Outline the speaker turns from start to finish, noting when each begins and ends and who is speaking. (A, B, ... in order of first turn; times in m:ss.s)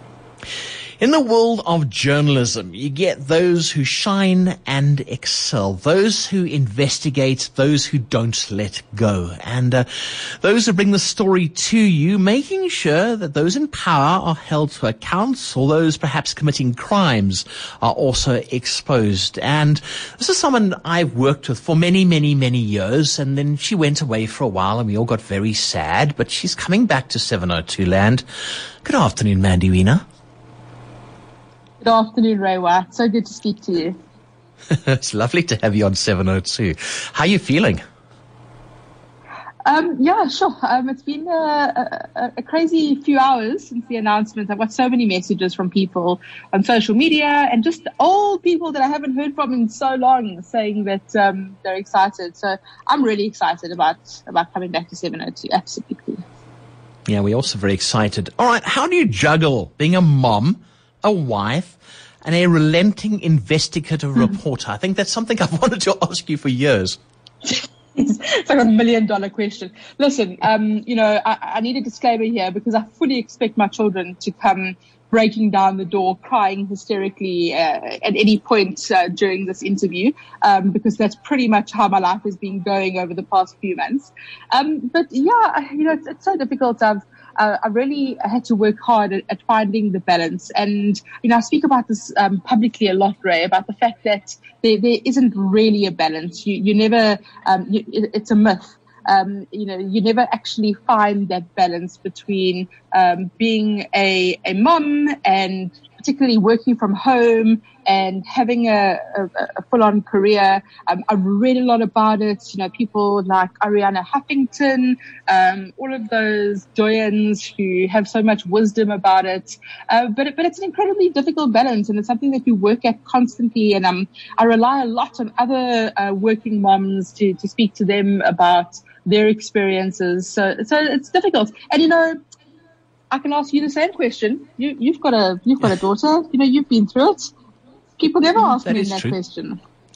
0:01.0-0:28.2 A
0:28.8-0:30.0 A
0:31.8-0:34.0 B
0:34.7-0:37.8 A
0:39.6-0:56.2 B
0:57.1-1:07.0 A
1:07.4-2:12.2 B
2:13.1-2:17.3 B
2:18.0-2:19.6 B
2:18.4-2:19.1 A